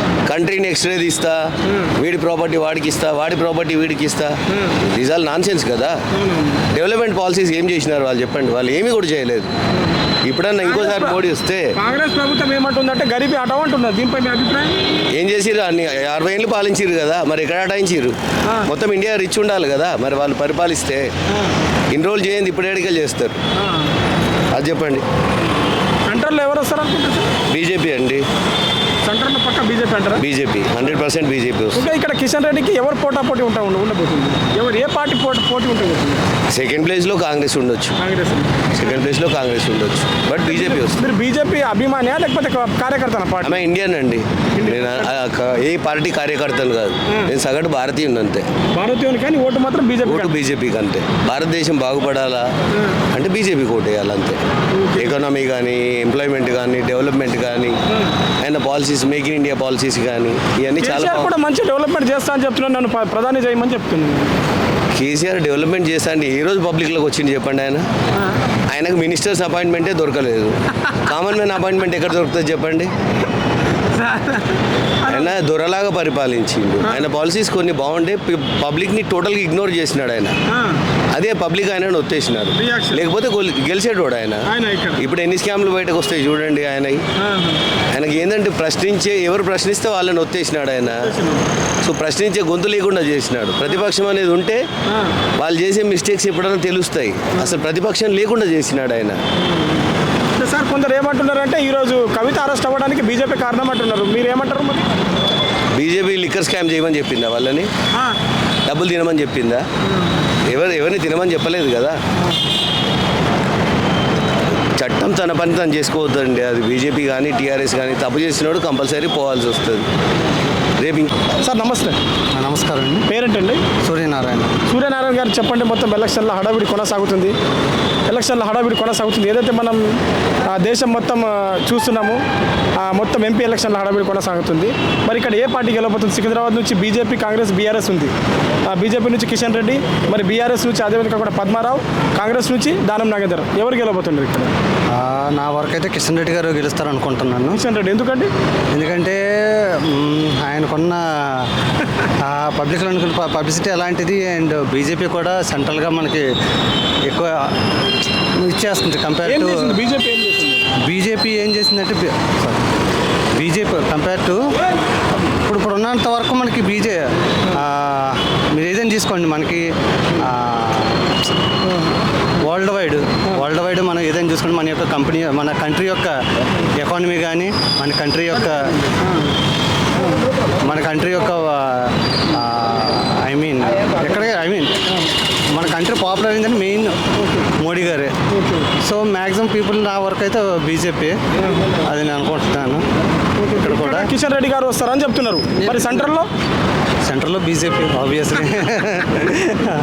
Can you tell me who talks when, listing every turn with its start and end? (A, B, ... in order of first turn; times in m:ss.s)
0:00.3-0:01.4 A
0:01.7-0:01.9 B
0:02.0-0:06.0 A
0:04.5-0:04.8 B
0:06.1-0:06.6 B
0:06.7-0:09.5 A
0:10.2-0:11.7 A
0:10.6-0:11.2 B
0:11.8-0:14.8 B
0:15.1-0:21.1 A
0:21.9-0:23.4 A
0:23.6-0:23.9 B
0:24.5-0:25.0 A
0:26.1-0:27.3 B
0:27.5-0:28.2 A
0:29.0-0:30.2 B
0:30.2-0:31.8 A
0:31.7-0:36.2 B
0:36.5-0:38.0 A
0:38.0-0:38.9 B
0:38.8-0:41.0 A
0:40.4-0:43.6 B
0:43.4-0:48.5 A
0:44.6-0:45.1 B
0:48.8-0:50.4 B
0:50.0-0:52.5 A
0:53.1-0:54.4 A
0:54.7-0:55.1 B
0:55.0-0:57.8 A
0:58.4-1:01.3 A
1:00.8-1:04.3 B
1:04.9-1:07.9 A
1:08.7-1:12.9 A
1:13.9-1:15.3 B
1:15.1-1:20.4 A
1:16.8-1:17.1 B
1:20.5-1:20.8 B
1:21.1-1:24.4 A
1:22.6-1:23.1 B
1:24.5-1:25.1 B
1:25.0-1:27.0 A
1:27.2-1:27.6 B
1:27.9-1:31.0 A
1:31.0-1:31.5 B
1:31.8-1:34.6 A
1:34.9-1:35.1 B
1:35.4-1:39.2 A
1:39.4-1:39.8 B
1:40.4-1:44.9 B
1:45.8-1:47.7 A
1:48.7-1:49.6 A
1:50.5-1:52.0 A
1:54.8-1:59.9 A
2:00.8-2:01.1 A
2:01.4-2:02.0 B
2:02.3-2:03.0 C
2:03.1-2:03.6 B
2:03.8-2:04.5 C
2:04.7-2:07.3 B
2:08.1-2:12.2 B
2:12.8-2:18.1 B
2:18.7-2:24.5 B
2:24.9-2:27.6 C
2:27.5-2:28.3 B
2:28.7-2:31.5 C
2:32.2-2:36.3 C
2:37.0-2:37.5 C
2:38.3-2:39.8 C
2:39.2-2:40.6 B
2:40.9-2:42.6 C
2:43.4-2:44.4 C
2:45.1-2:49.7 C
2:50.2-2:51.0 C
2:52.4-2:56.1 C
2:56.8-2:58.7 C
2:59.0-2:59.3 B
3:00.6-3:04.8 C
3:05.5-3:07.0 C
3:07.6-3:08.1 C
3:08.3-3:08.7 B
3:08.8-3:11.2 C
3:11.4-3:11.7 B
3:11.8-3:12.8 C
3:13.4-3:16.3 B
3:13.6-3:14.0 C
3:15.6-3:16.0 C
3:17.1-3:19.3 C